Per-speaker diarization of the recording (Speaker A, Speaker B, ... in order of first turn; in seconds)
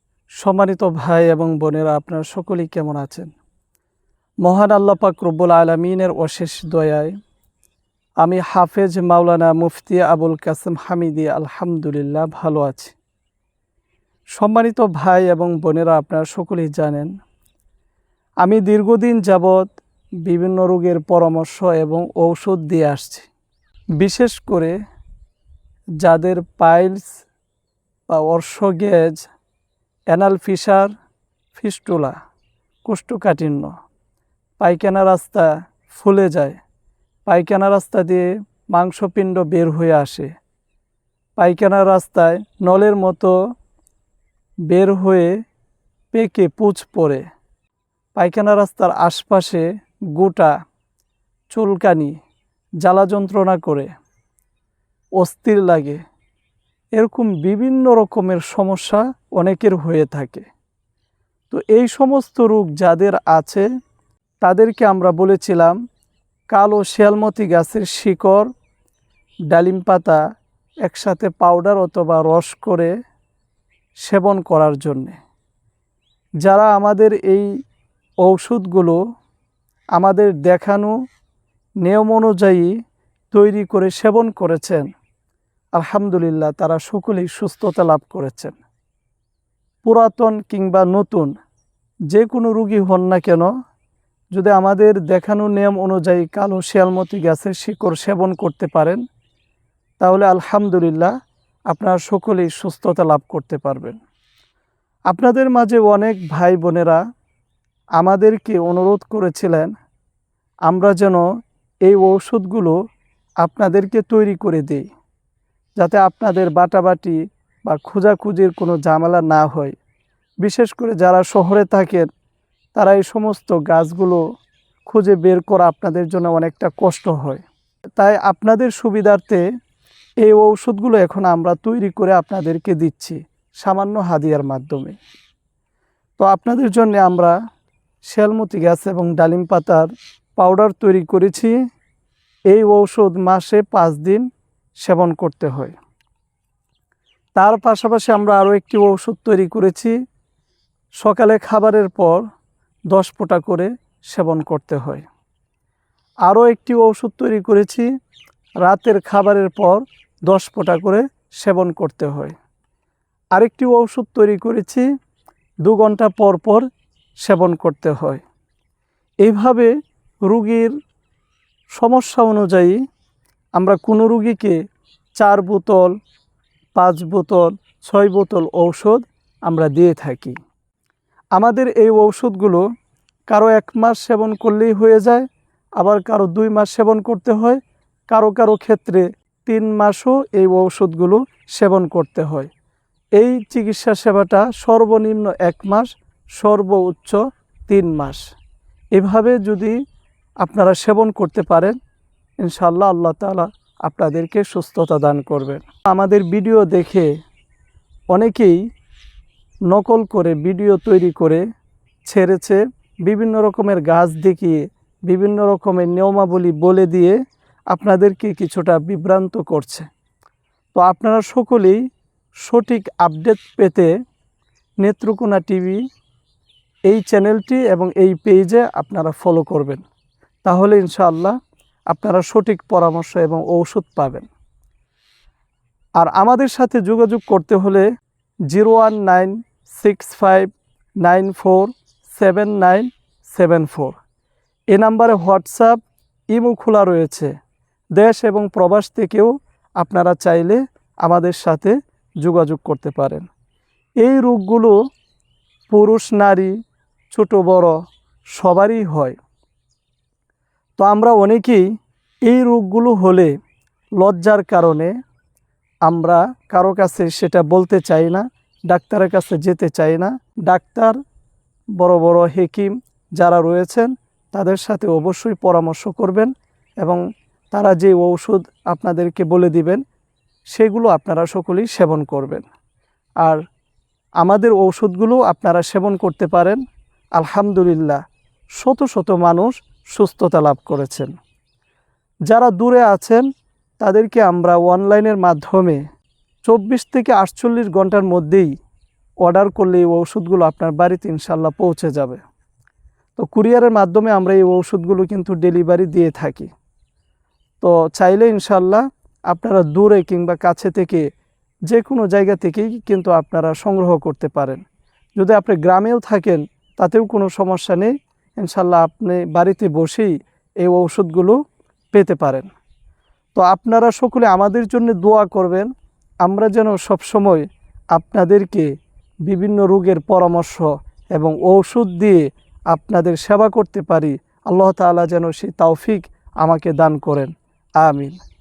Speaker A: 0.4-3.3, 4.4-7.1, 8.2-12.9, 14.4-17.1, 18.4-19.7, 20.3-23.3, 24.0-24.8, 26.0-27.2, 28.1-29.2, 30.1-30.9, 31.5-32.2, 32.9-33.7, 34.6-36.6, 37.3-40.3, 41.4-43.3, 44.7-45.4, 46.1-47.2, 48.2-50.5, 51.5-52.2, 52.8-53.9, 55.2-56.0, 57.0-60.5, 61.5-63.6, 64.4-65.8, 66.5-68.5, 69.5-70.2, 70.8-72.9, 74.0-75.2, 76.5-77.5, 78.2-79.0, 80.0-81.0, 81.8-82.7, 83.3-84.9, 85.7-88.6, 89.8-91.3, 92.1-93.5, 94.3-99.0, 100.0-101.1, 101.7-104.0, 105.1-107.0, 108.0-109.7, 110.7-111.2, 111.8-112.8, 113.4-114.9, 115.8-119.8, 120.4-122.1, 122.8-124.2, 124.9-127.5, 128.0-129.4, 130.2-135.0, 136.2-137.3, 138.1-141.6, 142.5-144.3, 144.8-145.8, 147.4-149.9, 151.0-152.2, 152.9-155.1, 156.3-157.9, 158.6-162.3, 163.3-164.8, 165.7-166.7, 167.2-168.2, 169.2-169.7, 170.2-170.7, 171.7-172.8, 173.6-174.6, 175.2-175.9, 176.8-180.4, 181.3-182.6, 183.3-185.3, 185.8-192.5, 193.2-198.2, 198.9-199.8, 200.4-201.8, 202.4-207.1, 208.1-208.6, 209.7-211.4, 212.1-217.2, 217.7-219.9, 220.8-221.8, 222.4-223.9, 224.8-225.8, 226.9-229.8, 230.4-231.4, 231.9-234.3, 236.0-237.9, 238.5-240.5, 241.0-244.0, 244.7-245.8, 246.3-247.3, 248.0-253.3, 254.0-254.8, 255.7-256.5, 257.1-257.8, 258.4-259.2, 260.8-261.6, 262.2-263.3, 264.0-264.9, 265.9-271.0, 271.8-277.0, 277.5-279.8, 280.5-282.5, 284.2-286.6, 287.2-288.0, 288.6-291.1, 292.3-293.3, 293.8-295.8, 296.4-298.5, 299.2-302.2, 303.2-306.5, 307.6-311.1, 311.7-314.6, 315.2-321.4, 321.9-322.5, 323.4-325.7, 326.2-328.7, 329.3-338.2